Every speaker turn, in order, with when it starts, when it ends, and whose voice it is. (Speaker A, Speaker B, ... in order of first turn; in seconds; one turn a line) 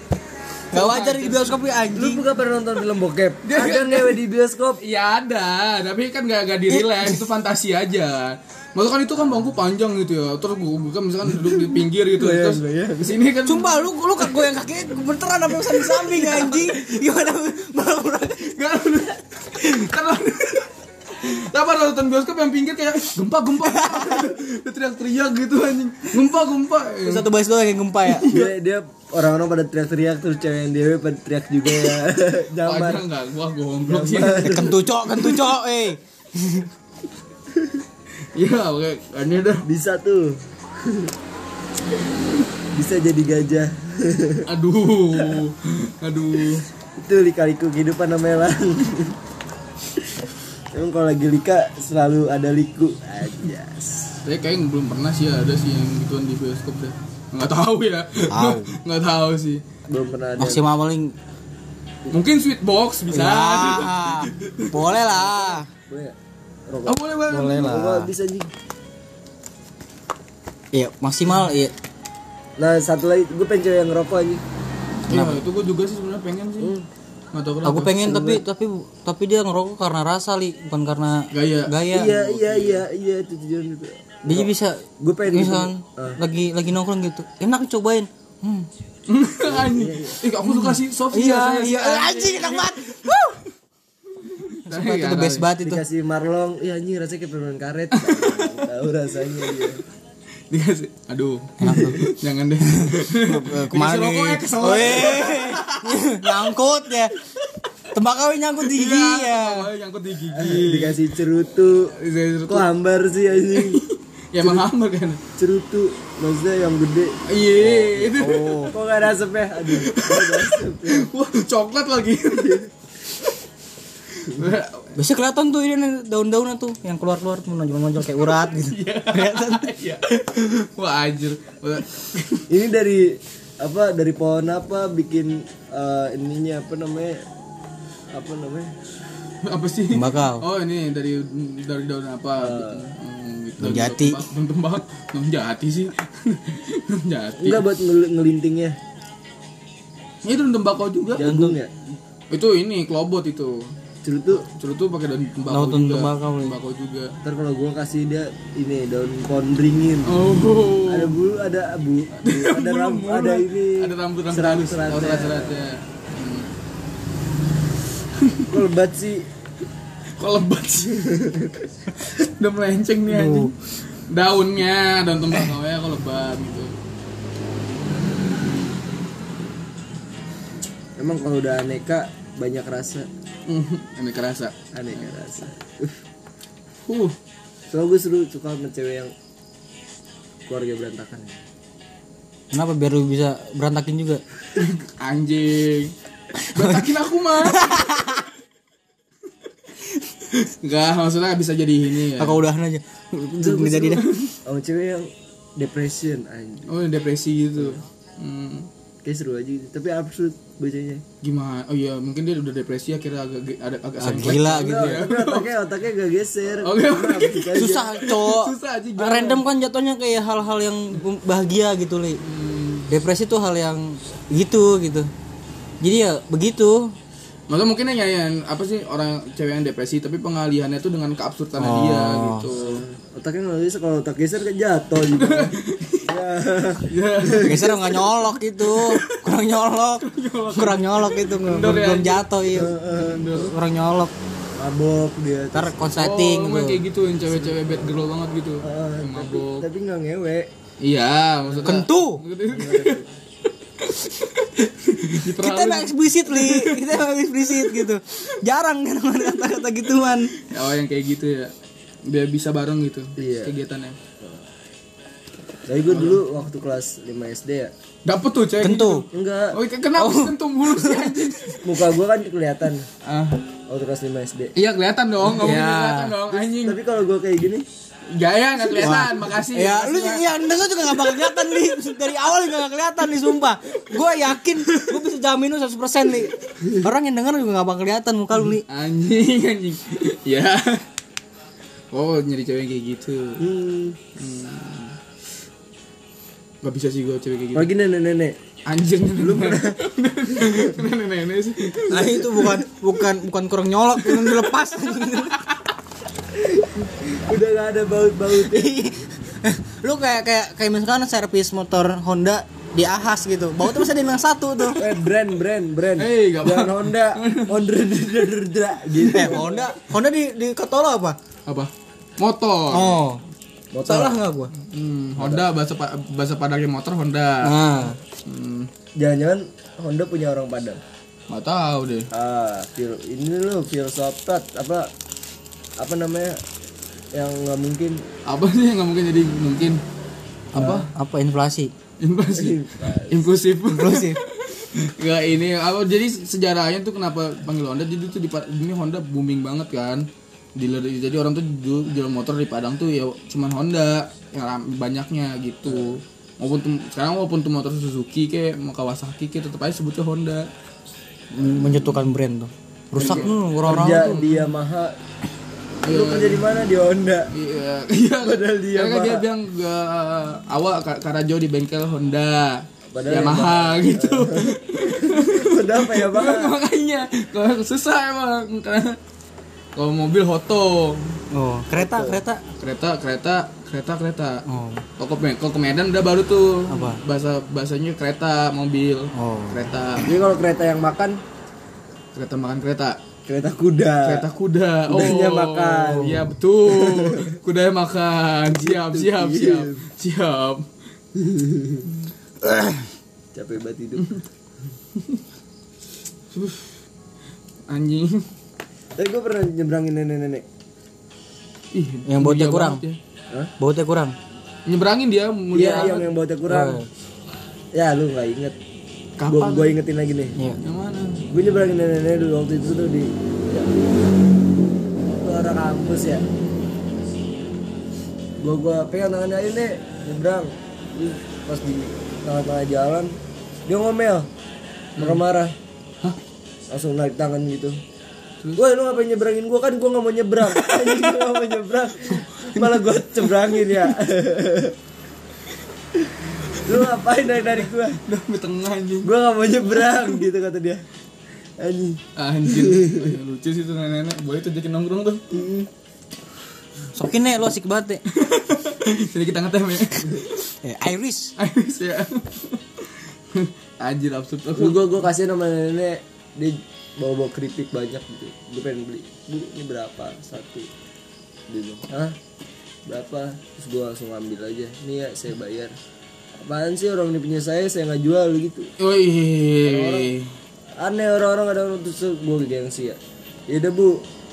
Speaker A: 0.7-1.6
Speaker B: 0.7-2.2
Speaker C: 1.9-4.8
Speaker A: 3.5-4.2
Speaker A: 4.8-14.4
Speaker B: 6.8-7.1
Speaker C: 11.3-13.2
Speaker B: 13.5-18.6
Speaker A: 15.5-16.9
Speaker A: 18.4-27.3
Speaker B: 23.6-24.3
Speaker B: 27.0-28.3
Speaker A: 28.1-28.5
Speaker C: 28.3-33.0
Speaker A: 32.6-35.5
Speaker C: 33.9-34.8
Speaker B: 34.4-36.7
Speaker A: 38.3-39.7
Speaker C: 39.7-41.1
Speaker C: 42.7-44.5
Speaker A: 44.5-46.7
Speaker C: 47.0-49.2
Speaker C: 50.7-54.2
Speaker A: 54.2-59.6
Speaker B: 58.3-58.7
Speaker C: 59.9-60.6
Speaker B: 60.4-61.1
Speaker A: 62.1-65.0
Speaker B: 63.1-65.7
Speaker C: 65.3-66.2
Speaker C: 66.7-68.5
Speaker A: 66.8-67.7
Speaker B: 67.3-68.1
Speaker B: 70.7-71.7
Speaker C: 72.6-74.4
Speaker A: 75.1-76.7
Speaker B: 75.1-75.4
Speaker C: 76.6-76.9
Speaker A: 77.3-78.0
Speaker B: 77.6-82.2
Speaker C: 78.0-78.4
Speaker A: 81.3-82.8
Speaker C: 81.9-86.2
Speaker B: 84.2-88.7
Speaker A: 89.1-93.4
Speaker C: 89.5-90.2
Speaker B: 90.4-93.4
Speaker A: 94.1-95.5
Speaker B: 94.7-95.8
Speaker C: 95.6-99.8
Speaker A: 97.9-98.7
Speaker A: 100.5-106.5
Speaker B: 101.6-102.1
Speaker B: 102.6-107.2
Speaker B: 107.9-109.7
Speaker A: 108.6-111.2
Speaker C: 110.3-111.9
Speaker A: 111.9-112.7
Speaker C: 112.5-113.8
Speaker A: 113.5-115.2
Speaker C: 115.4-121.1
Speaker A: 117.3-118.7
Speaker B: 118.2-118.7
Speaker A: 119.7-123.3
Speaker A: 124.2-125.0
Speaker B: 125.0-129.7
Speaker A: 128.0-132.5
Speaker C: 132.5-137.2
Speaker C: 138.1-138.7
Speaker A: 139.4-147.7
Speaker B: 139.9-140.4
Speaker C: 142.4-142.9
Speaker B: 143.6-144.2
Speaker C: 147.4-148.8
Speaker A: 150.2-151.3
Speaker C: 151.2-151.7
Speaker B: 151.2-151.6
Speaker A: 152.3-153.8
Speaker C: 154.0-154.5
Speaker A: 154.3-157.2
Speaker B: 155.5-156.6
Speaker C: 157.2-160.2
Speaker A: 160.1-161.2
Speaker C: 160.9-165.6
Speaker A: 162.1-166.5
Speaker A: 168.2-168.6
Speaker C: 168.5-169.2
Speaker A: 170.2-171.2
Speaker C: 170.9-171.7
Speaker A: 171.9-176.7
Speaker B: 173.1-173.5
Speaker C: 181.0-183.1
Speaker A: 183.5-185.1
Speaker C: 184.7-186.0
Speaker A: 186.8-187.2
Speaker C: 187.7-189.1
Speaker C: 190.5-191.4
Speaker B: 192.5-194.2
Speaker A: 194.6-195.9
Speaker B: 196.4-198.3
Speaker A: 196.5-198.2
Speaker A: 200.3-202.4
Speaker B: 202.2-204.1
Speaker C: 203.4-203.9
Speaker A: 203.8-204.4
Speaker C: 204.4-206.7
Speaker A: 206.7-208.7
Speaker C: 209.0-211.0
Speaker A: 211.2-215.6
Speaker B: 214.0-215.0
Speaker C: 214.4-218.0
Speaker A: 216.6-219.4
Speaker B: 217.6-222.2
Speaker A: 222.2-222.9
Speaker B: 222.9-225.1
Speaker B: 225.8-226.9
Speaker A: 227.5-232.8
Speaker B: 231.6-232.5
Speaker C: 232.5-237.7
Speaker A: 235.1-236.1
Speaker A: 236.9-239.4
Speaker B: 237.4-242.7
Speaker A: 240.0-243.5
Speaker C: 242.5-243.2
Speaker B: 243.3-244.1
Speaker C: 244.6-245.8
Speaker B: 245.5-246.8
Speaker A: 246.0-249.7
Speaker C: 247.4-247.7
Speaker C: 248.6-250.5
Speaker A: 250.8-253.1
Speaker C: 251.5-251.8
Speaker B: 251.7-252.2
Speaker C: 252.5-253.1
Speaker A: 253.8-257.9
Speaker B: 255.2-260.4
Speaker A: 260.4-261.5
Speaker A: 262.1-264.0
Speaker C: 263.2-263.6
Speaker C: 265.7-267.7
Speaker A: 265.9-266.2
Speaker A: 268.1-271.8
Speaker B: 268.6-269.1
Speaker C: 269.1-269.6
Speaker B: 270.0-271.3
Speaker C: 271.6-272.9
Speaker A: 273.0-273.5
Speaker C: 273.7-274.5
Speaker A: 274.6-276.8
Speaker B: 275.3-276.2
Speaker C: 276.3-277.6
Speaker A: 278.1-280.3
Speaker B: 278.7-288.6
Speaker A: 281.1-281.4
Speaker A: 284.6-285.0
Speaker A: 288.7-290.9
Speaker A: 291.9-293.4
Speaker C: 293.4-294.0
Speaker A: 294.2-295.0
Speaker A: 296.6-297.7
Speaker C: 297.5-298.4
Speaker A: 298.7-302.6
Speaker C: 299.2-299.8
Speaker C: 300.3-300.6
Speaker B: 301.9-305.4
Speaker C: 301.9-302.6
Speaker A: 304.0-305.6
Speaker C: 306.3-308.9
Speaker B: 308.3-315.0
Speaker C: 314.8-319.7
Speaker A: 316.0-317.6
Speaker B: 319.0-321.2
Speaker A: 321.5-323.0
Speaker B: 322.7-323.2
Speaker C: 323.7-324.2
Speaker B: 323.9-324.5
Speaker A: 324.6-327.5
Speaker C: 325.2-325.4
Speaker B: 327.4-328.0
Speaker A: 328.2-328.7
Speaker C: 329.0-330.8
Speaker A: 331.3-332.1
Speaker C: 332.1-334.9
Speaker C: 335.8-336.4
Speaker C: 337.1-338.0
Speaker A: 338.3-339.8
Speaker A: 340.5-340.9
Speaker B: 340.6-341.7
Speaker C: 340.6-340.8
Speaker A: 342.0-360.5
Speaker C: 342.3-343.2
Speaker B: 343.7-344.2
Speaker C: 355.7-356.0
Speaker B: 361.3-364.4
Speaker A: 361.5-362.0
Speaker A: 363.0-363.3
Speaker C: 363.0-364.9
Speaker A: 365.9-366.4
Speaker C: 365.9-367.3
Speaker A: 367.3-379.0
Speaker C: 368.2-369.3
Speaker C: 372.9-376.6
Speaker A: 379.8-381.2
Speaker B: 381.3-382.4
Speaker C: 381.7-382.2
Speaker A: 382.6-384.4
Speaker B: 384.5-384.8
Speaker A: 385.0-390.1
Speaker B: 386.7-387.0
Speaker B: 389.1-389.7
Speaker C: 390.0-391.2
Speaker A: 392.1-393.0
Speaker C: 393.3-394.3
Speaker A: 394.0-400.7
Speaker C: 394.9-397.3
Speaker C: 398.5-399.9
Speaker C: 401.1-401.9
Speaker C: 403.3-404.1
Speaker A: 404.0-404.2
Speaker A: 404.9-405.2
Speaker A: 406.3-406.8
Speaker A: 407.7-408.3
Speaker C: 409.0-410.5
Speaker A: 411.7-413.0
Speaker B: 412.1-412.8
Speaker B: 413.6-414.2
Speaker A: 414.7-416.1
Speaker C: 415.5-416.8
Speaker B: 416.5-416.9
Speaker C: 417.7-418.6
Speaker A: 419.2-419.8
Speaker C: 419.2-420.4
Speaker A: 420.6-421.2
Speaker C: 421.3-423.7
Speaker C: 425.1-426.3
Speaker C: 428.4-434.3
Speaker C: 435.0-435.5
Speaker C: 436.7-437.8
Speaker C: 438.6-444.8
Speaker A: 440.5-441.3
Speaker A: 442.1-443.9
Speaker C: 446.6-448.0
Speaker A: 448.1-449.1
Speaker C: 449.0-450.8
Speaker A: 449.8-450.2
Speaker C: 451.6-453.1
Speaker A: 452.2-455.2
Speaker C: 455.3-455.7
Speaker B: 456.9-458.0
Speaker A: 458.1-460.4
Speaker B: 460.5-461.4
Speaker A: 461.4-464.9
Speaker C: 464.6-470.7
Speaker C: 471.5-472.1
Speaker C: 472.9-475.7
Speaker C: 476.4-478.7
Speaker A: 478.8-480.4
Speaker C: 479.6-480.1
Speaker C: 480.8-484.0